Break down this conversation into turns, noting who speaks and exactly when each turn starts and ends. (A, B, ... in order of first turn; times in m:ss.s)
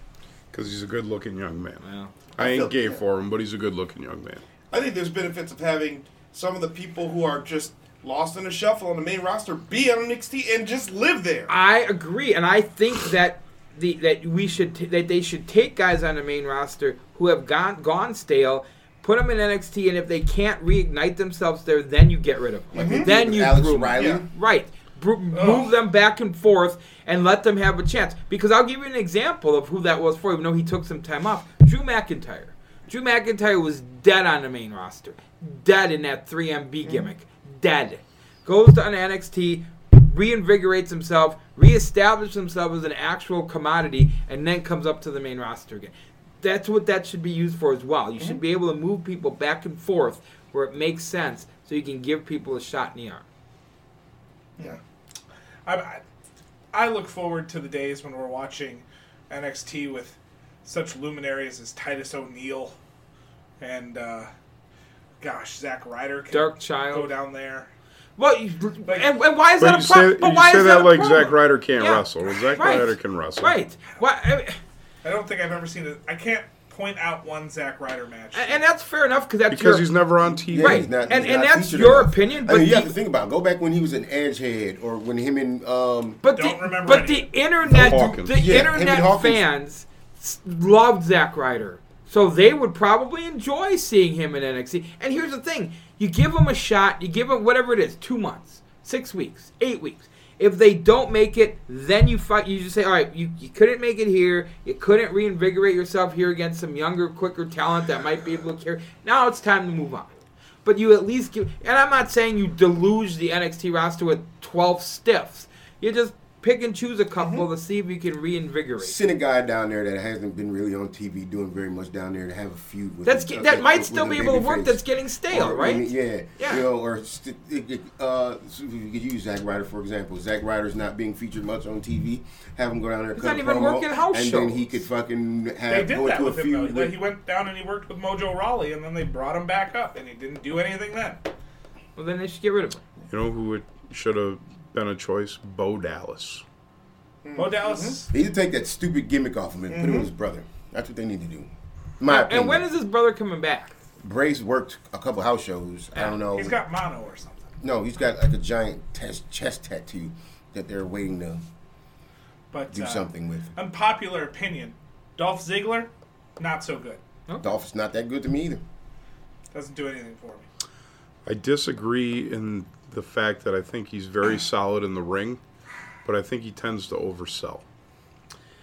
0:00.5-0:01.8 A
0:01.8-0:02.1 B
0:02.4-0:04.4 A
0:02.4-0:03.0 C
0:04.7-0:11.5 C
0:11.5-0:53.2 B
0:22.7-0:24.3 D
0:22.8-0:23.2 C
0:23.9-0:24.2 C
0:25.3-0:25.7 E
0:55.7-0:56.0 E
0:56.7-1:02.8 E
1:03.6-1:04.3 E
1:05.2-1:07.7 E
1:06.3-1:07.1 B
1:08.2-1:14.6 B
1:08.9-1:09.1 E
1:09.6-1:13.6 A
1:15.0-1:18.6 E
1:18.3-1:19.9 B
1:19.5-1:21.1 A
1:20.5-1:26.2 D
1:20.5-1:22.9 B
1:26.2-1:50.1 B
1:26.3-1:27.3 E
1:27.7-1:29.4 D
1:27.7-1:28.4 A
1:50.6-1:59.0 B
1:57.2-1:57.5 C
1:58.8-2:17.0 D
2:03.0-2:06.6 B
2:13.2-2:14.8 B
2:15.7-2:21.2 E
2:22.0-2:22.8 B
2:23.1-2:26.4 A
2:27.2-2:28.0 C
2:27.4-2:28.1 E
2:28.1-2:32.7 D
2:29.7-2:30.1 C
2:32.1-2:33.7 B
2:34.0-2:36.6 D
2:36.3-2:37.5 E
2:37.6-2:41.4 D
2:42.5-2:47.0 E
2:42.7-2:43.5 D
2:47.3-2:47.6 B
2:47.4-2:48.6 D
2:49.5-2:50.5 E
2:51.3-2:55.4 A
2:56.0-2:57.6 A